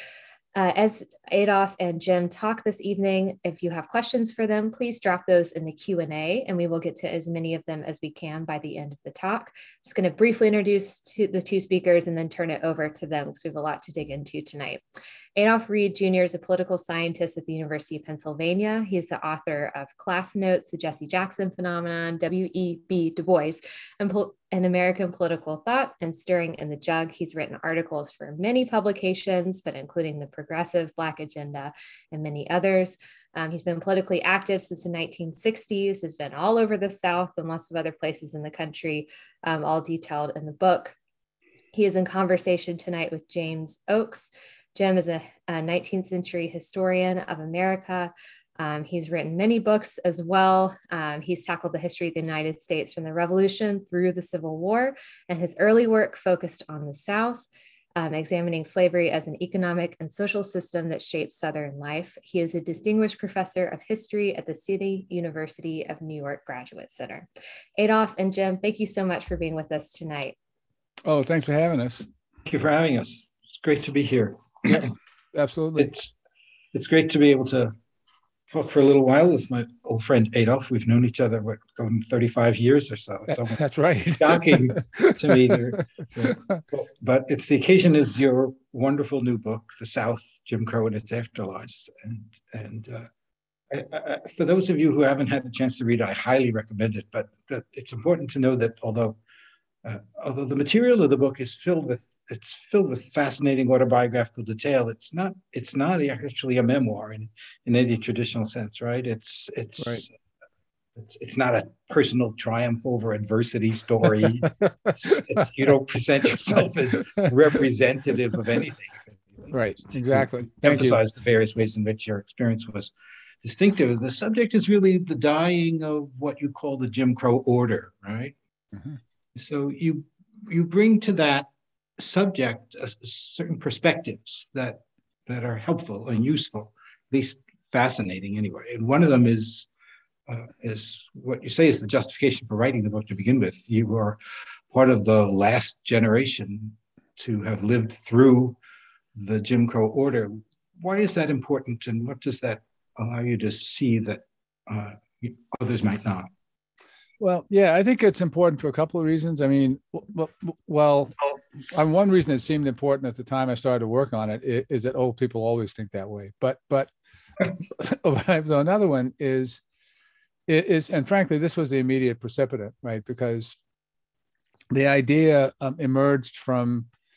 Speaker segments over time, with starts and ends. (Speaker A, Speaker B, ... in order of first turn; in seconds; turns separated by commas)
Speaker A: 0.5-14.8, Speaker A: 15.3-41.0, Speaker A: 41.7-57.5, Speaker A: 58.0-70.4, Speaker B: 71.0-72.1, Speaker C: 72.4-74.9, Speaker B: 74.7-75.9, Speaker C: 75.8-76.1, Speaker C: 76.7-77.7, Speaker C: 78.5-83.6, Speaker B: 83.3-85.6, Speaker C: 84.1-93.1, Speaker B: 86.2-86.6, Speaker C: 93.7-99.2, Speaker C: 99.8-110.1, Speaker B: 109.8-110.0, Speaker C: 111.0-119.2, Speaker B: 119.5-121.0, Speaker C: 119.9-128.3, Speaker C: 129.3-139.7, Speaker C: 140.3-144.2, Speaker C: 144.7-148.6, Speaker C: 149.1-156.3, Speaker B: 157.2-166.9, Speaker B: 167.6-169.6, Speaker B: 170.5-173.6, Speaker B: 174.7-176.9